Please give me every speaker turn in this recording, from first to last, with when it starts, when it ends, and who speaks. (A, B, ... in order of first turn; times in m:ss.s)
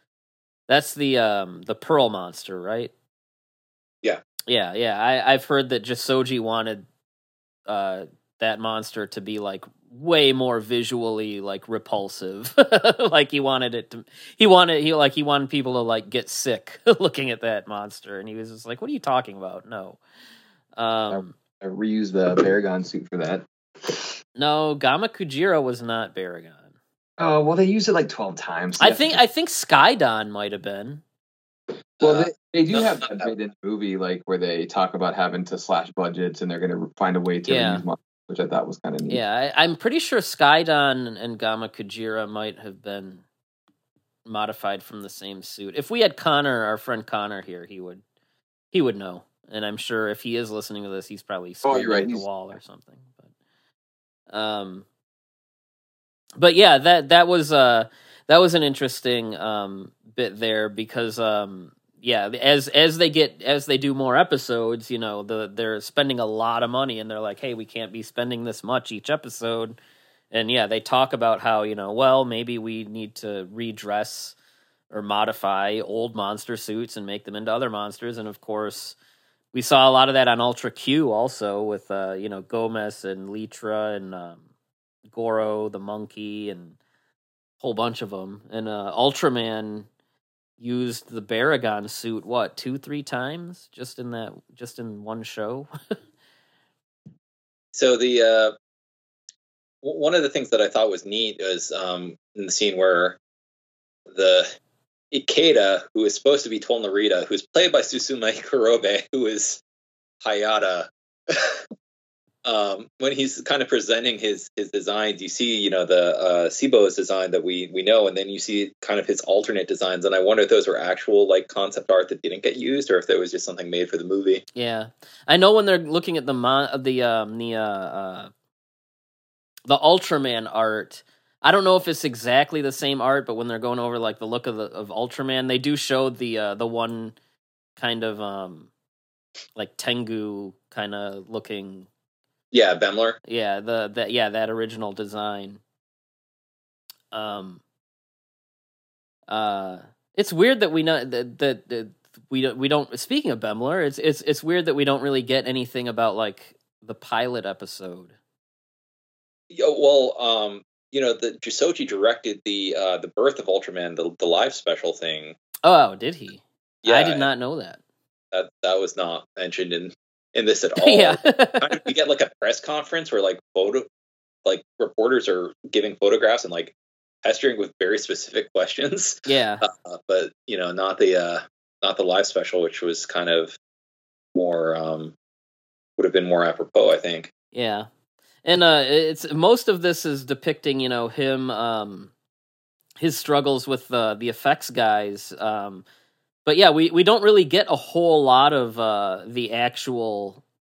0:00.7-0:02.9 A
0:04.5-0:06.8 A
0:07.7-0:20.0 A
0:20.8-0:21.4 A
0:21.1-0:24.1 B
0:24.4-0:26.7 A
0:27.2-0:29.2 B
0:28.8-0:31.0 A
0:32.0-0:33.3 C
0:32.0-0:39.2 B
0:37.5-0:37.8 A
0:39.1-0:43.2 A
0:44.3-0:48.0 A
0:48.7-0:53.3 A
0:51.6-0:52.3 B
0:54.3-0:54.8 A
0:56.4-1:09.8 A
1:10.3-1:14.4 A
1:14.9-1:19.0 A
1:19.5-1:24.4 A
1:25.1-1:26.8 A
1:27.6-1:29.9 A
1:30.6-1:35.7 A
1:37.7-1:38.5 C
1:39.8-1:43.2 C
1:44.1-1:44.5 C
1:45.1-1:49.6 C
1:50.2-1:51.6 C
1:52.4-2:04.4 C
2:04.6-2:08.3 A
2:09.7-2:17.2 A
2:17.8-2:18.7 A
2:19.6-2:21.9 A
2:22.5-2:23.2 C
2:23.2-2:25.6 A
2:27.1-2:27.6 A
2:29.3-2:38.1 A
2:39.5-2:45.4 C
2:45.6-2:47.8 A
2:46.8-2:47.3 C
2:48.3-2:53.8 C
2:50.8-2:51.8 A
2:54.4-3:03.6 C
2:59.3-2:59.6 A
3:04.4-3:05.1 C
3:06.0-3:07.3 C
3:07.5-3:07.9 A
3:08.4-3:12.1 A
3:13.0-3:15.8 A
3:16.5-3:20.4 A